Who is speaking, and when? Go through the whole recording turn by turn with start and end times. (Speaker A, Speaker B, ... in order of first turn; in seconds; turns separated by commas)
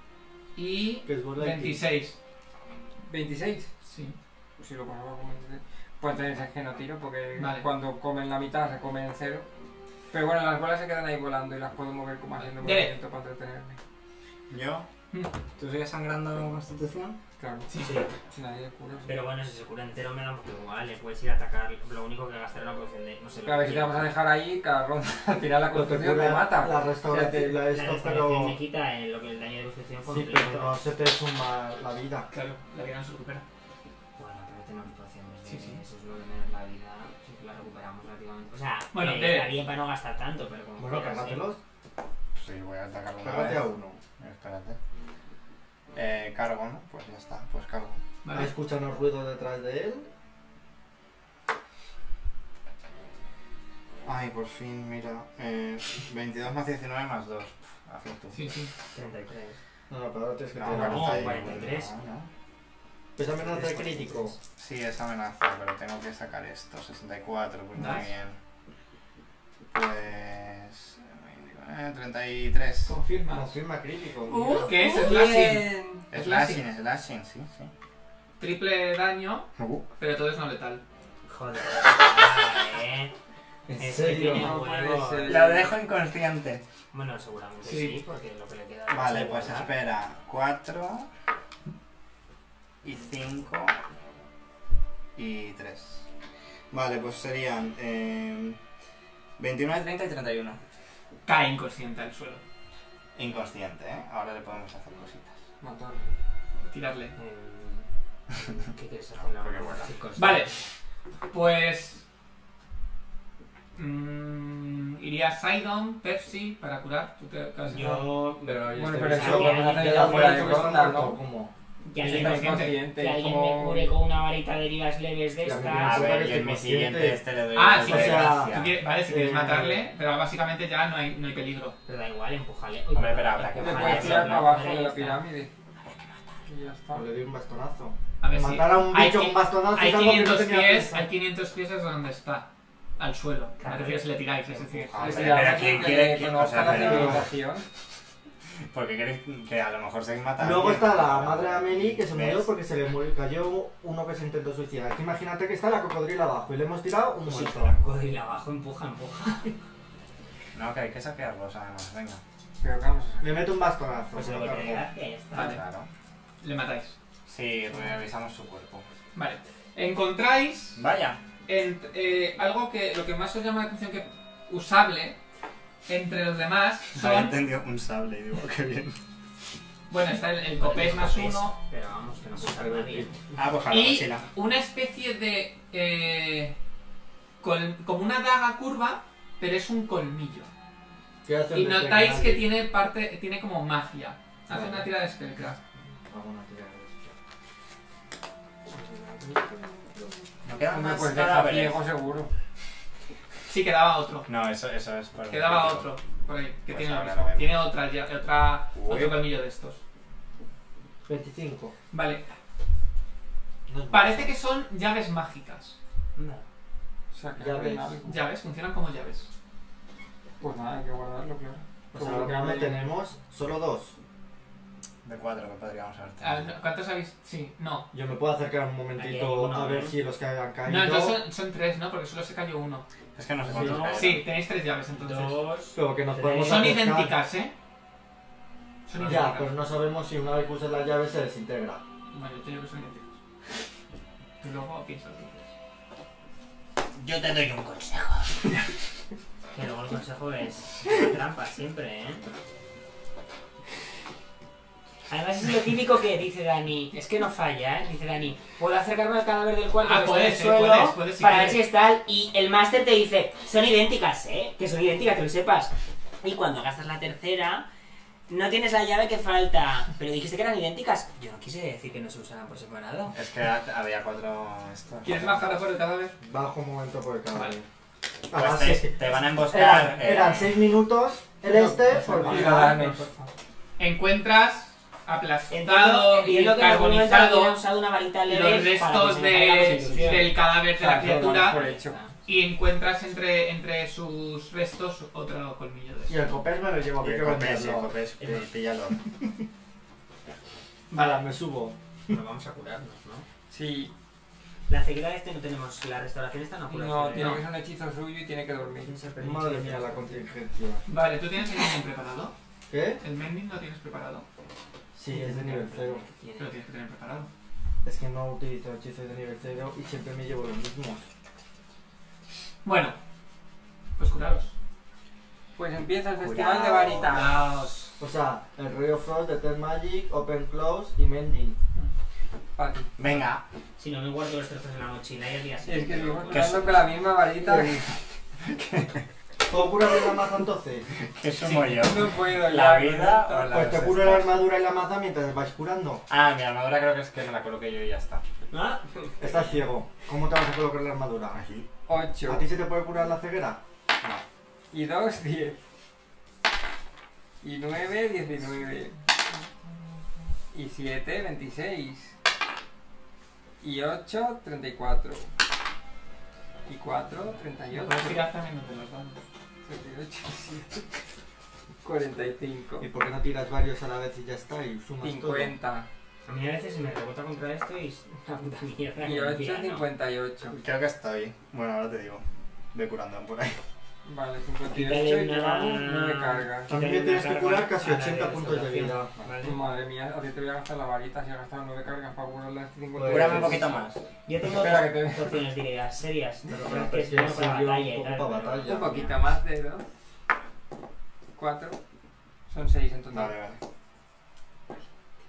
Speaker A: 0.5-2.1, Speaker B: 1.1-1.8, Speaker C: 3.0-3.7, Speaker A: 3.8-4.2, Speaker C: 4.6-9.5, Speaker A: 7.3-7.7, Speaker C: 10.1-13.8, Speaker A: 12.6-12.9, Speaker D: 14.5-14.9, Speaker D: 15.6-17.2, Speaker C: 17.4-19.1, Speaker A: 17.7-18.0, Speaker E: 17.8-18.1, Speaker E: 19.0-24.1, Speaker C: 23.4-27.6, Speaker B: 25.7-28.6, Speaker E: 27.7-30.8, Speaker B: 30.1-32.3, Speaker A: 32.3-33.4, Speaker E: 34.1-41.5, Speaker A: 35.5-35.8, Speaker A: 38.9-39.5, Speaker B: 40.8-41.6, Speaker D: 42.3-44.8, Speaker B: 43.2-44.0, Speaker D: 45.9-48.0, Speaker A: 48.2-48.5, Speaker B: 48.3-50.1, Speaker D: 54.0-58.5, Speaker A: 58.3-58.7, Speaker E: 58.9-59.6, Speaker B: 59.9-61.1, Speaker D: 60.5-62.3, Speaker E: 60.6-61.9, Speaker B: 63.1-64.3, Speaker E: 63.2-64.4, Speaker D: 64.6-68.3, Speaker A: 67.7-68.1, Speaker D: 69.7-73.0, Speaker A: 72.9-73.5, Speaker B: 73.2-74.7, Speaker A: 74.3-76.6, Speaker C: 74.6-76.1, Speaker D: 76.1-77.7, Speaker A: 78.4-79.5, Speaker D: 79.6-79.8, Speaker A: 80.0-80.8, Speaker E: 81.3-83.1, Speaker B: 83.7-84.6, Speaker E: 83.8-85.6, Speaker C: 84.2-85.7, Speaker D: 85.2-86.6, Speaker E: 86.9-89.7, Speaker A: 87.6-88.0, Speaker D: 88.9-91.1, Speaker D: 92.8-93.8, Speaker D: 95.2-96.0, Speaker D: 96.7-98.6, Speaker D: 99.4-100.6, Speaker A: 101.2-102.4, Speaker D: 103.1-105.3, Speaker C: 105.6-106.1, Speaker A: 106.6-107.2, Speaker E: 107.2-110.6, Speaker D: 109.2-109.9, Speaker A: 110.2-110.5, Speaker A: 111.3-112.0, Speaker A: 113.8-118.0, Speaker E: 117.7-120.8, Speaker B: 118.4-121.5, Speaker C: 118.7-121.2, Speaker E: 121.8-126.2, Speaker A: 122.0-122.8, Speaker C: 122.0-124.0, Speaker B: 125.4-127.2, Speaker D: 125.7-128.8, Speaker A: 127.5-131.8, Speaker B: 127.7-129.9, Speaker E: 131.8-135.2, Speaker D: 132.9-134.5, Speaker C: 133.6-135.5, Speaker D: 135.8-136.2, Speaker C: 136.4-137.1, Speaker B: 136.9-141.1, Speaker A: 138.2-145.6, Speaker E: 143.6-145.9, Speaker D: 144.9-147.3, Speaker C: 145.0-147.6, Speaker B: 146.5-147.3, Speaker D: 148.7-152.5, Speaker B: 150.4-157.8, Speaker E: 157.2-159.6, Speaker D: 160.5-162.2, Speaker C: 162.6-163.5, Speaker B: 163.2-164.9, Speaker E: 164.1-165.6, Speaker D: 164.2-165.9, Speaker A: 165.3-165.6, Speaker A: 166.4-166.9, Speaker D: 167.2-168.8, Speaker A: 169.1-170.8, Speaker D: 170.7-171.2, Speaker A: 171.5-175.2, Speaker A: 175.8-177.4, Speaker D: 176.9-179.0, Speaker A: 179.9-181.5, Speaker E: 180.5-183.1, Speaker B: 182.4-183.1, Speaker D: 183.3-184.2, Speaker A: 183.7-186.6, Speaker A: 187.4-190.5, Speaker B: 191.2-192.5, Speaker A: 191.5-195.6, Speaker B: 194.5-194.9, Speaker B: 196.1-197.1, Speaker E: 198.7-199.4, Speaker D: 200.4-201.8, Speaker C: 200.6-202.3, Speaker A: 203.5-204.3, Speaker D: 204.3-205.9, Speaker A: 205.3-209.8, Speaker D: 206.7-207.6, Speaker D: 208.7-209.2, Speaker B: 211.1-211.7, Speaker A: 211.9-212.3, Speaker B: 213.7-214.3, Speaker A: 213.9-215.8, Speaker E: 216.2-216.4, Speaker C: 217.1-218.2, Speaker B: 217.3-218.0, Speaker A: 218.1-219.3, Speaker C: 220.4-222.8, Speaker B: 221.9-223.9, Speaker D: 225.0-226.5, Speaker A: 226.2-227.9, Speaker B: 227.9-231.2, Speaker E: 228.9-230.0, Speaker A: 230.7-232.8, Speaker D: 233.1-234.2, Speaker E: 233.5-234.2, Speaker B: 233.5-233.8, Speaker A: 233.9-235.4, Speaker E: 234.9-236.9, Speaker B: 235.7-237.1, Speaker A: 236.4-237.5, Speaker A: 238.8-239.6, Speaker B: 239.0-241.8, Speaker A: 242.1-243.1, Speaker A: 244.4-245.5, Speaker D: 247.0-248.2, Speaker E: 249.5-252.3, Speaker E: 255.1-267.6, Speaker A: 259.8-261.6, Speaker E: 268.3-273.1, Speaker D: 273.1-275.4, Speaker A: 275.0-276.1, Speaker B: 276.2-277.6, Speaker B: 278.3-282.9, Speaker D: 278.3-280.7, Speaker C: 281.4-283.3, Speaker A: 281.9-282.9, Speaker A: 283.8-287.6, Speaker E: 285.5-290.3, Speaker A: 288.2-291.6, Speaker C: 289.7-292.0, Speaker B: 290.9-291.3, Speaker E: 291.4-292.1, Speaker A: 292.2-296.3, Speaker B: 296.1-298.0, Speaker D: 297.0-299.0, Speaker A: 300.9-301.2, Speaker B: 300.9-302.1, Speaker E: 302.1-303.2, Speaker C: 303.5-303.9, Speaker E: 304.7-307.4, Speaker C: 306.7-308.9, Speaker A: 307.1-307.4, Speaker E: 308.8-310.2, Speaker B: 309.2-310.8, Speaker A: 310.9-312.3, Speaker B: 312.7-313.0, Speaker A: 313.0-314.2, Speaker B: 314.9-316.0, Speaker E: 315.1-316.6, Speaker A: 316.4-317.3, Speaker B: 317.8-321.0, Speaker A: 322.6-323.0, Speaker A: 324.0-324.5, Speaker C: 325.6-327.5, Speaker B: 326.2-327.2, Speaker A: 327.1-328.0, Speaker B: 328.0-331.6, Speaker C: 332.6-332.9, Speaker D: 333.0-333.4, Speaker E: 333.8-336.9, Speaker C: 335.6-337.9, Speaker D: 336.3-336.8, Speaker B: 337.4-337.8, Speaker D: 338.4-339.0, Speaker B: 339.5-340.9, Speaker D: 341.0-344.4, Speaker C: 341.6-343.6, Speaker B: 343.5-346.0, Speaker D: 346.1-348.2, Speaker E: 348.5-349.6, Speaker B: 349.2-351.4, Speaker D: 351.3-351.7, Speaker C: 351.9-352.5, Speaker B: 352.2-353.6, Speaker C: 354.7-355.6, Speaker C: 357.4-359.4, Speaker C: 360.5-362.1, Speaker C: 363.6-365.3, Speaker C: 366.6-368.2, Speaker A: 367.7-369.2, Speaker C: 369.6-371.0, Speaker C: 371.8-372.9, Speaker B: 372.8-375.6, Speaker C: 375.0-375.9, Speaker E: 376.2-379.9, Speaker C: 379.0-380.6, Speaker D: 380.5-383.6, Speaker C: 384.0-386.7, Speaker E: 384.7-389.7, Speaker B: 386.7-389.1, Speaker C: 389.4-393.7, Speaker B: 392.9-393.7, Speaker D: 393.0-394.0, Speaker E: 394.2-399.2, Speaker C: 394.4-395.5, Speaker B: 396.5-399.0, Speaker C: 398.6-399.8, Speaker C: 401.3-401.8, Speaker C: 402.5-403.4, Speaker D: 403.1-403.6